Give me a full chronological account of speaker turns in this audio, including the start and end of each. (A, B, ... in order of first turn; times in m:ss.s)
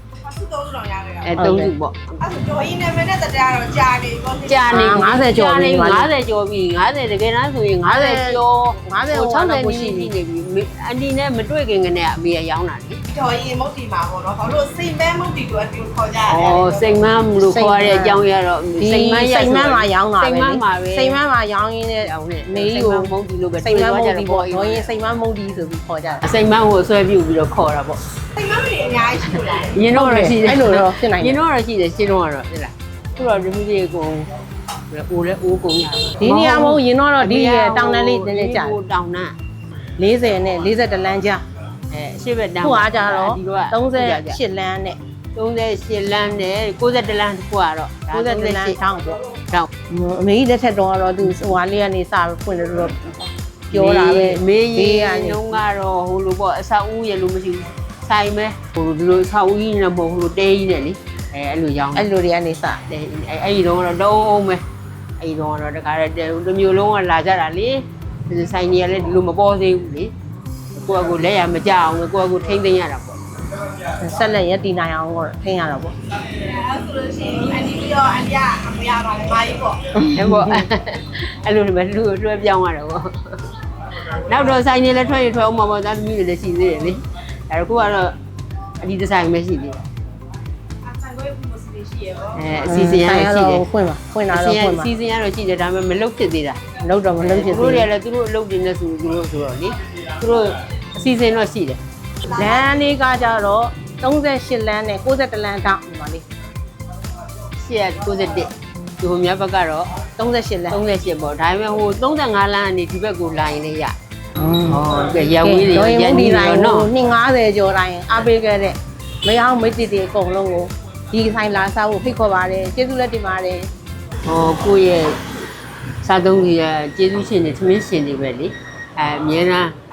0:00.2-0:01.4 A
0:01.2-0:02.2 B
0:01.4-0:01.7 C
0:02.2-0:04.8 A
0:04.5-0:13.0 B
0:04.7-0:06.1 C
0:07.9-0:10.1 C
0:13.1-0:17.0 A
0:16.3-0:21.2 B
0:17.4-0:18.3 C
0:18.8-0:26.3 C
0:22.0-0:24.9 B
0:26.2-0:28.0 B
0:28.4-0:29.8 A
0:29.5-0:34.3 B
0:29.9-0:31.4 C
0:34.9-0:39.4 B
0:36.2-0:38.8 C
0:40.0-0:41.4 C
0:41.9-0:44.4 B
0:42.6-0:45.0 C
0:45.4-0:48.8 B
0:48.1-0:49.2 C
0:49.9-0:55.6 C
0:53.7-1:02.1 B
1:01.9-1:02.8 C
1:02.9-1:04.6 B
1:05.2-1:10.1 B
1:10.7-1:13.2 B
1:13.9-1:15.9 C
1:16.3-1:20.0 A
1:20.0-1:28.2 B
1:28.8-1:29.8 B
1:30.8-1:32.5 A
1:32.3-1:33.7 B
1:32.6-1:34.9 C
1:34.3-1:36.6 B
1:36.8-1:37.9 C
1:37.2-1:41.8 B
1:42.3-1:46.2 C
1:47.6-1:50.0 B
1:50.2-1:50.8 C
1:50.7-1:54.0 B
1:54.4-2:03.7 C
1:54.7-1:56.9 B
2:04.3-2:05.2 B
2:06.0-2:09.8 B